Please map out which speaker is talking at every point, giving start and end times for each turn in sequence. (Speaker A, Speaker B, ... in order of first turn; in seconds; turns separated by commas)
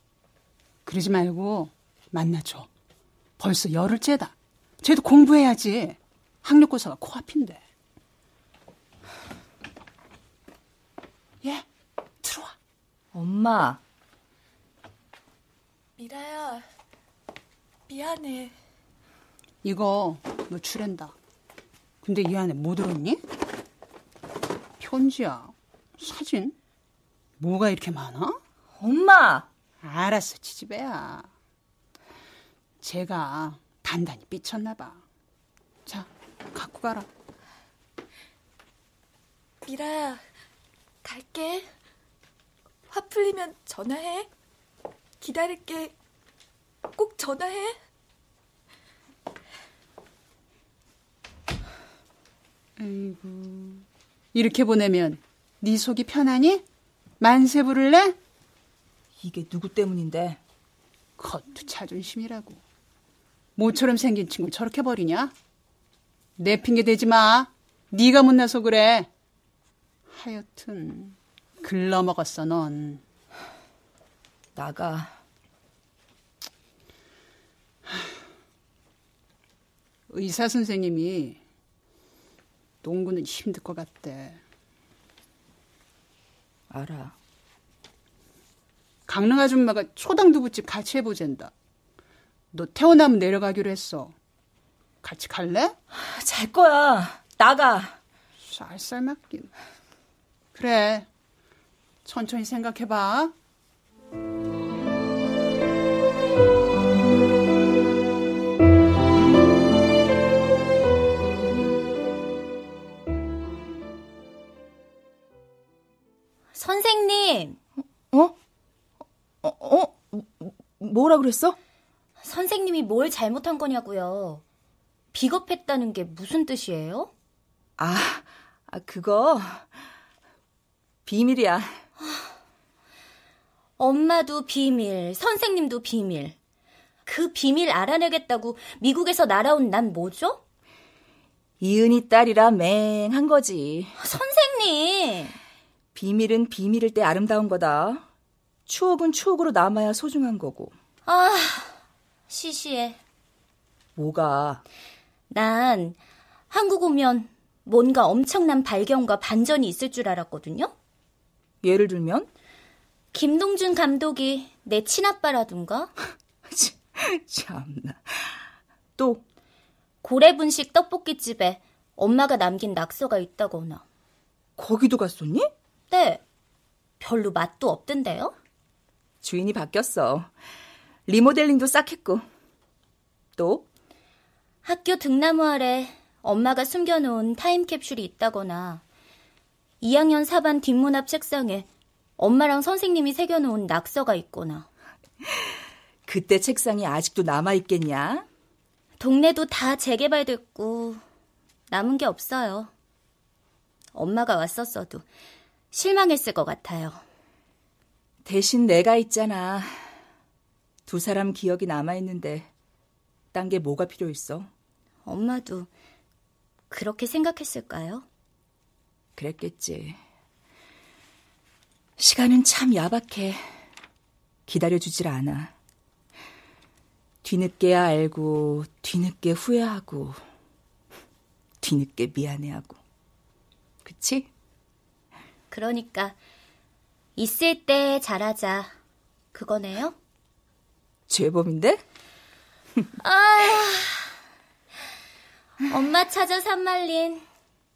Speaker A: 0.8-2.7, Speaker A: 3.4-7.6, Speaker A: 12.2-12.5, Speaker B: 13.1-13.8, Speaker C: 16.0-16.6, Speaker C: 17.9-18.5, Speaker A: 19.6-21.1, Speaker A: 22.0-23.2, Speaker A: 24.8-26.6, Speaker A: 27.4-28.4, Speaker B: 28.8-29.5, Speaker A: 29.8-31.3, Speaker A: 32.8-35.0, Speaker A: 35.9-37.1, Speaker C: 39.6-40.2, Speaker C: 41.0-41.6, Speaker C: 42.9-44.3, Speaker C: 45.2-45.9, Speaker C: 47.0-47.7, Speaker A: 52.8-56.6, Speaker A: 57.2-58.2, Speaker B: 59.2-60.4, Speaker A: 61.2-62.6, Speaker A: 63.5-65.3, Speaker A: 66.4-69.1, Speaker A: 70.1-73.0, Speaker B: 74.5-75.1, Speaker A: 80.1-81.4, Speaker A: 82.8-84.4, Speaker B: 86.7-87.1, Speaker A: 89.1-91.5, Speaker A: 92.5-94.1, Speaker A: 95.0-95.8, Speaker B: 95.9-97.9, Speaker A: 98.5-99.5, Speaker A: 100.5-101.1, Speaker A: 102.0-103.3, Speaker D: 116.5-117.6, Speaker B: 119.4-121.6, Speaker D: 122.2-124.4, Speaker D: 125.1-127.1, Speaker B: 127.8-129.7, Speaker B: 131.1-131.7, Speaker D: 133.8-136.3, Speaker D: 137.1-140.4, Speaker B: 141.6-143.9, Speaker D: 144.0-145.4, Speaker B: 145.9-148.0, Speaker B: 148.7-150.7, Speaker D: 151.1-151.8, Speaker D: 152.3-153.0, Speaker B: 153.9-154.6, Speaker D: 155.3-156.0, Speaker D: 156.5-160.7, Speaker B: 161.6-162.3, Speaker D: 163.1-165.9, Speaker B: 166.5-168.4, Speaker B: 169.0-169.2, Speaker D: 170.0-173.8, Speaker B: 174.6-175.5, Speaker D: 175.9-176.2, Speaker D: 177.0-178.3, Speaker B: 179.2-180.3, Speaker B: 181.1-182.2, Speaker B: 183.4-183.7, Speaker D: 184.6-188.8, Speaker D: 189.8-191.7, Speaker D: 192.2-194.7, Speaker B: 196.1-198.2, Speaker D: 199.0-201.0, Speaker D: 201.7-202.7, Speaker D: 203.9-205.0, Speaker D: 205.7-207.0, Speaker B: 208.2-209.7, Speaker B: 210.9-212.5, Speaker B: 213.3-214.5, Speaker D: 215.0-215.7, Speaker D: 216.7-218.1, Speaker B: 219.2-220.0, Speaker B: 222.0-223.4, Speaker B: 224.5-225.5, Speaker B: 227.2-230.2, Speaker B: 231.6-232.8, Speaker B: 233.8-234.3, Speaker D: 235.5-236.2, Speaker D: 237.2-238.7, Speaker D: 239.3-239.9, Speaker B: 241.1-241.8, Speaker D: 243.0-244.1, Speaker D: 245.7-247.2